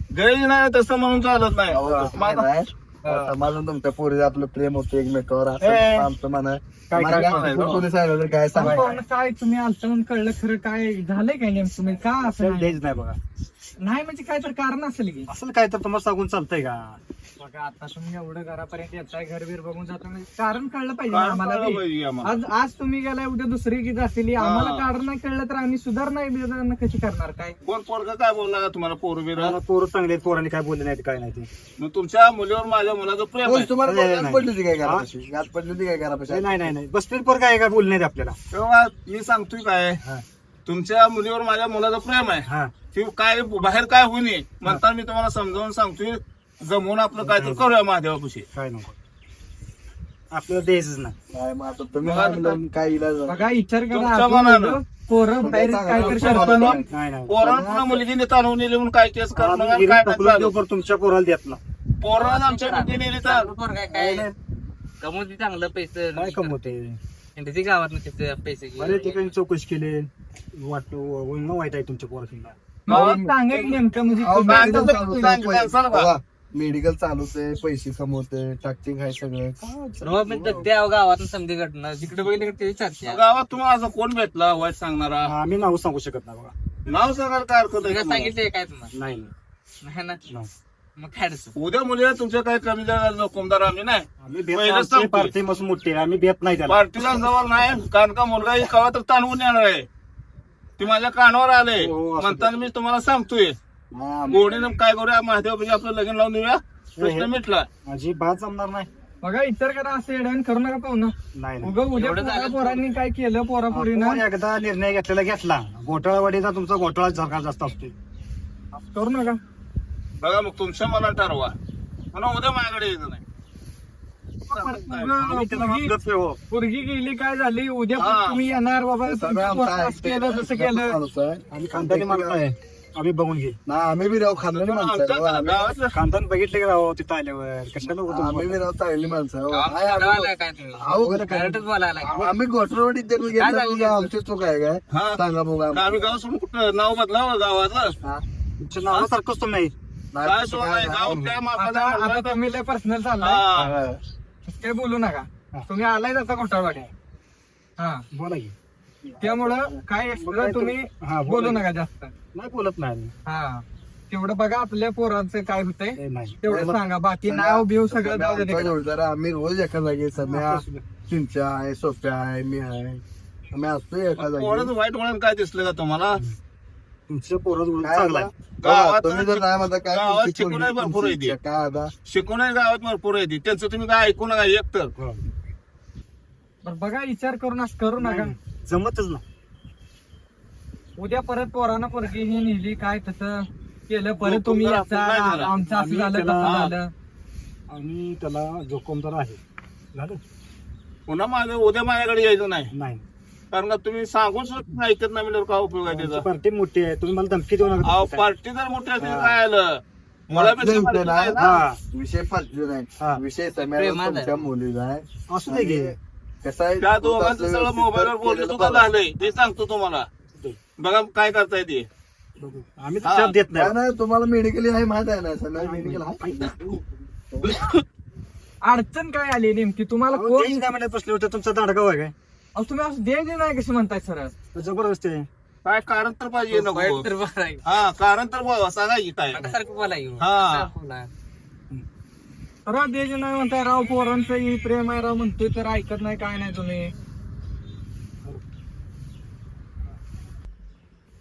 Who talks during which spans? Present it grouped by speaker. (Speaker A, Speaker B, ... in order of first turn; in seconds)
Speaker A: 0.1-2.5, 5.6-6.0, 7.3-7.8, 21.1-22.3, 24.4-24.9, 27.6-29.6, 31.8-33.7, 38.5-40.0, 40.6-48.5, 52.0-52.6, 53.9-54.8, 56.0-60.6, 62.0-63.5, 72.9-73.8, 74.4-76.1, 83.0-85.3, 86.8-88.3, 91.6-95.3, 96.7-99.9, 100.8-103.6, 104.2-107.7, 120.2-121.5, 122.1-123.2, 124.5-125.2, 128.0-128.4, 134.5-135.9, 144.9-145.2, 145.7-147.9, 148.9-149.1, 150.2-152.4, 153.2-153.8, 174.2-176.2, 178.6-181.3, 182.1-184.9, 194.2-195.5, 196.4-196.7, 201.1-202.7, 203.5-206.3, 207.8-211.6, 216.8-220.1, 220.8-221.9, 223.0-223.4, 227.5-227.8, 235.6-237.1, 237.6-239.4, 240.2-240.7
Speaker B: 1.7-8.9, 33.4-36.7, 51.3-53.4, 55.4-56.9, 74.2-79.6, 129.0-132.4, 133.7-135.7, 138.1-141.3, 142.0-146.1, 150.1-151.2, 153.5-154.0, 166.5-166.8, 167.3-174.7, 177.8-181.9, 210.3-218.9, 223.5-226.5, 227.3-227.6
Speaker C: 1.8-2.1, 6.9-7.8, 12.2-13.2, 15.3-17.0, 29.3-31.5, 33.8-35.0, 36.3-38.4, 42.5-42.8, 47.2-47.7, 48.5-48.9, 50.3-51.1, 56.9-57.6, 59.3-61.6, 63.9-64.3, 66.1-67.0, 68.7-72.5, 79.6-80.7, 85.2-86.5, 88.9-89.3, 94.2-97.2, 101.8-102.6, 103.9-104.6, 107.0-108.9, 111.3-111.8, 113.7-117.9, 125.1-126.4, 131.5-133.6, 135.9-138.6, 140.9-141.6, 148.6-149.7, 158.1-159.4, 160.1-161.6, 162.3-163.1, 166.0-166.4, 170.2-170.8, 177.1-178.3, 185.0-185.2, 188.0-189.2, 195.4-196.6, 197.7-199.4, 199.9-200.2, 202.7-203.0, 205.9-208.2, 209.0-209.4, 211.4-211.8, 215.3-215.9, 222.4-223.7, 225.6-226.9, 230.1-232.1, 234.5-235.3
Speaker D: 8.5-12.8, 13.8-15.3, 17.4-27.6, 53.3-56.8, 72.9-74.9, 109.2-114.2, 118.7-119.4, 124.5-125.9, 126.5-131.0, 151.5-153.4, 154.5-156.9, 157.8-158.0, 159.2-162.1, 163.2-168.8, 186.6-188.3, 191.0-196.9, 228.6-230.5, 232.5-234.3, 242.6-246.9
Speaker E: 62.1-64.3, 65.0-66.5, 67.3-69.3, 80.0-83.2, 87.8-88.9, 89.8-90.2, 91.0-91.5, 111.9-112.8, 139.5-142.3, 143.3-144.1, 213.7-214.5, 236.5-237.7, 239.3-241.1